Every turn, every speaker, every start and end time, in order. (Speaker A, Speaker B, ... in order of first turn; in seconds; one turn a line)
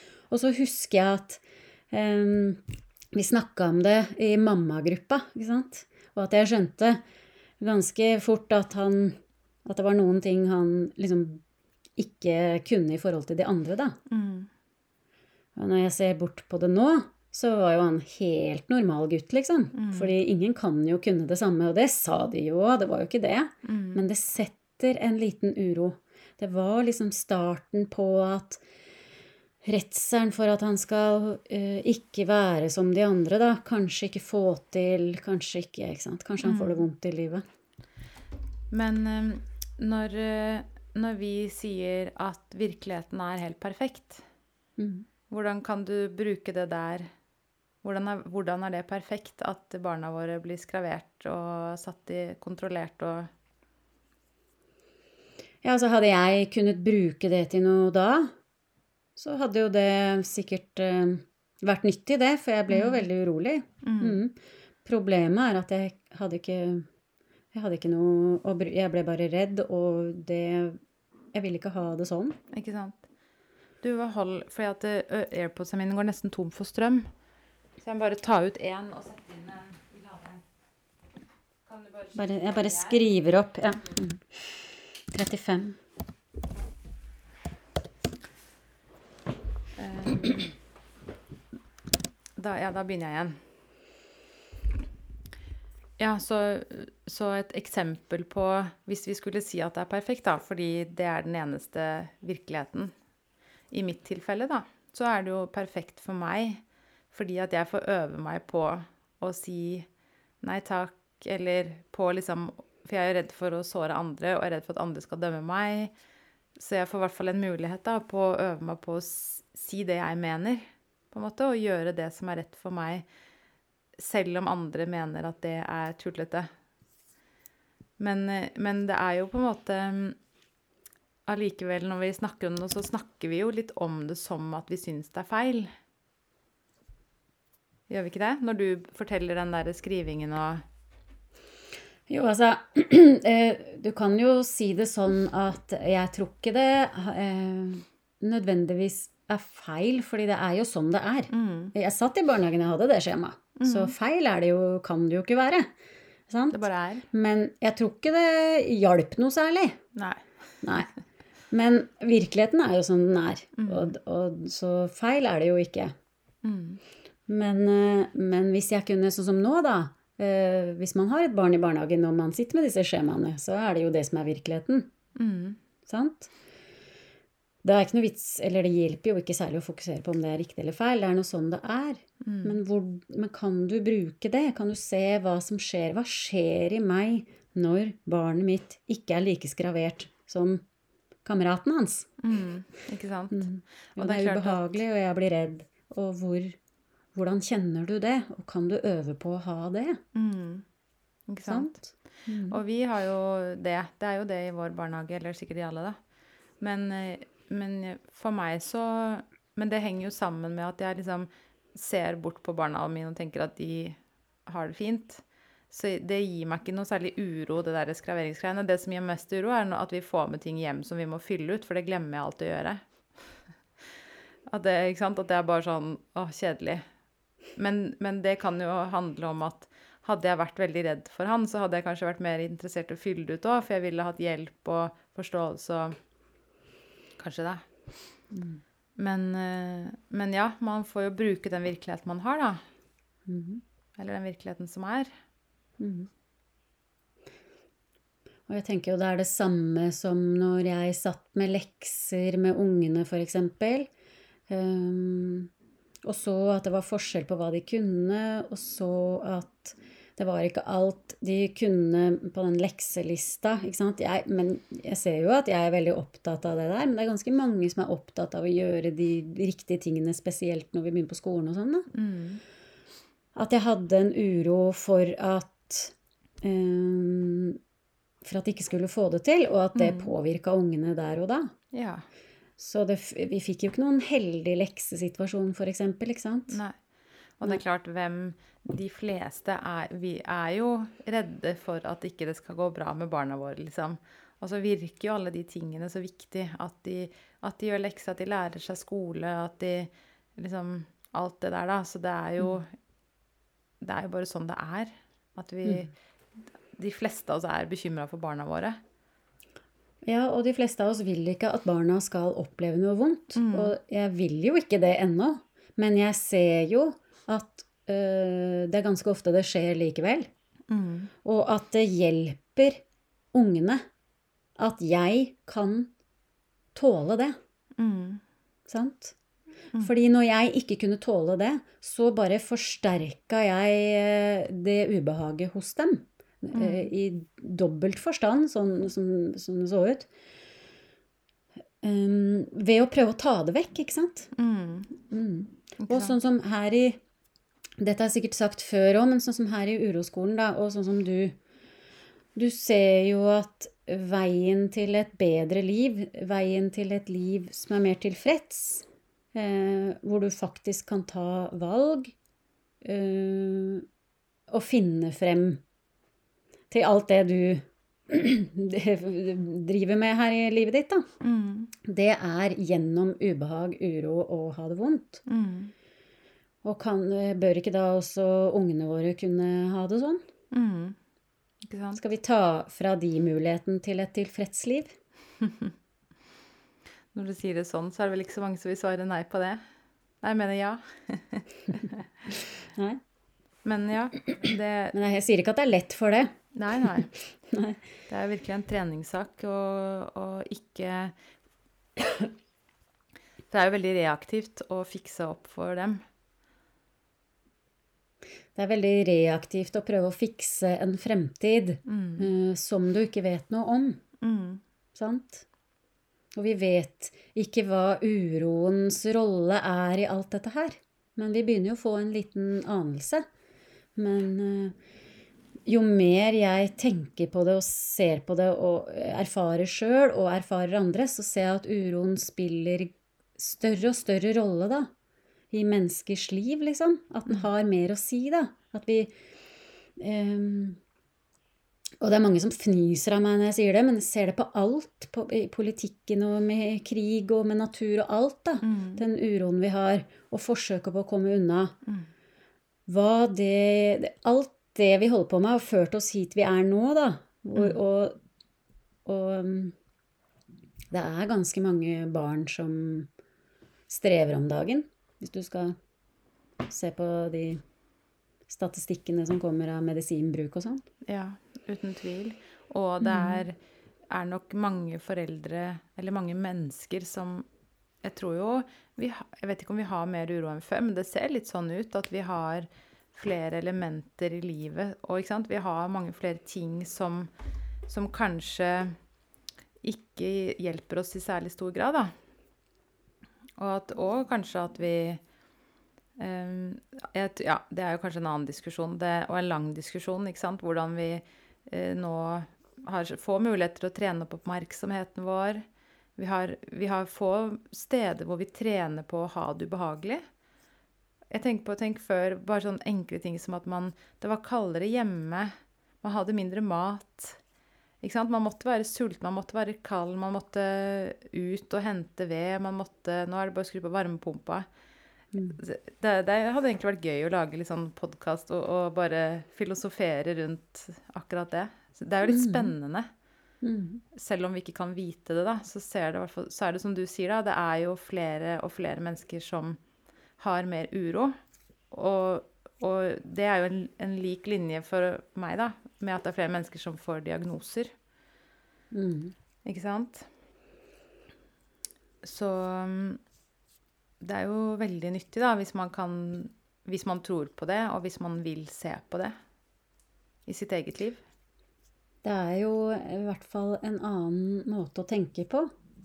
Speaker A: 0.3-7.0
Speaker A: 7.6-11.4
Speaker A: 12.0-14.0
Speaker B: 14.1-14.5
Speaker A: 15.5-28.6
Speaker B: 19.7-20.1
Speaker B: 23.6-24.0
Speaker A: 29.6-37.4
Speaker B: 36.4-36.8
Speaker B: 38.7-44.2
Speaker A: 44.8-45.0
Speaker B: 45.3-47.1
Speaker B: 47.8-53.3
Speaker A: 55.6-58.3
Speaker A: 59.1-66.9
Speaker B: 62.7-63.1
Speaker B: 63.8-64.2
Speaker A: 67.5-70.8
Speaker A: 71.3-72.4
Speaker B: 72.5-73.0
Speaker B: 73.8-77.1
Speaker B: 77.8-80.4
Speaker B: 81.7-83.0
Speaker A: 82.1-85.8
Speaker B: 89.8-90.5
Speaker B: 92.4-93.4
Speaker B: 96.0-102.9
Speaker B: 103.7-109.9
Speaker B: 110.4-115.9
Speaker B: 116.6-123.0
Speaker B: 124.0-126.5
Speaker B: 128.0-130.2
Speaker B: 131.3-135.7
Speaker B: 137.9-140.6
Speaker A: 142.1-155.7
Speaker B: 151.3-151.7
Speaker B: 153.6-153.9
Speaker A: 156.3-159.8
Speaker B: 156.5-157.1
Speaker B: 159.9-160.2
Speaker A: 160.6-160.9
Speaker A: 161.5-165.9
Speaker B: 163.6-163.9
Speaker B: 166.4-166.8
Speaker A: 167.3-174.9
Speaker B: 175.2-175.6
Speaker A: 175.9-176.3
Speaker A: 177.6-190.6
Speaker B: 182.2-182.6
Speaker A: 191.2-192.1
Speaker B: 192.2-194.8
Speaker A: 193.3-196.6
Speaker A: 197.1-200.0
Speaker B: 200.1-200.6
Speaker B: 201.3-201.7
Speaker A: 201.4-202.6
Speaker B: 202.5-205.9
Speaker B: 206.6-222.8
Speaker B: 224.5-226.8
Speaker B: 227.6-235.9
Speaker B: 237.2-237.6
Speaker A: 238.3-238.6
Speaker B: 239.0-242.6
Speaker A: 243.2-243.6
Speaker B: 244.0-245.1
Speaker A: 245.8-246.1
Speaker A: 248.5-253.9
Speaker A: 254.5-255.5
Speaker A: 256.0-271.9
Speaker B: 271.9-272.4
Speaker A: 273.3-277.6
Speaker A: 278.2-281.5
Speaker B: 279.7-280.1
Speaker B: 281.7-282.0
Speaker A: 282.6-286.6
Speaker B: 286.5-286.7
Speaker B: 287.4-302.7
Speaker B: 303.8-305.9
Speaker B: 306.7-308.8
Speaker A: 310.0-320.3
Speaker B: 313.3-313.7
Speaker B: 320.7-321.1
Speaker A: 321.2-322.8
Speaker A: 323.3-323.8
Speaker A: 324.6-325.9
Speaker A: 326.7-327.4
Speaker B: 327.8-328.2
Speaker A: 328.7-329.1
Speaker A: 329.8-340.1
Speaker B: 336.5-336.9
Speaker A: 341.8-344.3
Speaker B: 344.4-344.9
Speaker A: 345.1-347.0
Speaker B: 345.8-346.1
Speaker A: 347.8-351.4
Speaker A: 352.3-362.1
Speaker A: 362.8-363.9
Speaker A: 364.5-365.6
Speaker A: 366.7-371.1
Speaker B: 371.2-371.7
Speaker A: 371.8-375.2
Speaker B: 375.3-375.7
Speaker A: 376.6-380.2
Speaker B: 380.5-381.0
Speaker B: 381.6-382.0
Speaker A: 381.9-384.9
Speaker B: 385.4-385.7
Speaker B: 387.1-389.6
Speaker B: 390.2-392.1
Speaker A: 392.7-393.0
Speaker B: 393.6-394.9
Speaker A: 394.9-397.8
Speaker B: 396.5-397.1
Speaker B: 398.1-401.1
Speaker B: 403.5-406.0
Speaker A: 408.5-414.0
Speaker B: 411.9-412.3
Speaker B: 414.2-414.6
Speaker A: 414.9-415.4
Speaker A: 416.3-423.2
Speaker A: 423.9-424.8
Speaker A: 425.6-434.9
Speaker A: 435.5-439.1
Speaker A: 440.0-440.8
Speaker A: 442.0-451.7
Speaker B: 448.6-449.0
Speaker A: 452.9-458.2
Speaker A: 459.0-459.7
Speaker A: 460.9-463.1
Speaker A: 463.9-465.8
Speaker A: 466.7-467.6
Speaker A: 468.5-470.8
Speaker B: 471.1-473.6
Speaker A: 473.0-473.4
Speaker B: 474.1-477.5
Speaker B: 478.0-487.3
Speaker B: 487.9-488.9
Speaker B: 489.8-492.1
Speaker B: 493.6-495.2
Speaker B: 496.2-505.6
Speaker B: 506.2-510.2
Speaker B: 511.3-517.4
Speaker B: 518.0-524.6
Speaker B: 525.5-533.1
Speaker A: 532.2-532.7
Speaker A: 533.6-534.0
Speaker B: 534.1-539.8
Speaker B: 540.4-541.3
Speaker B: 541.9-547.9
Speaker A: 548.9-549.3
Speaker B: 549.6-550.3
Speaker B: 552.2-553.2
Speaker B: 554.2-559.3
Speaker B: 560.5-561.2
Speaker A: 562.2-565.7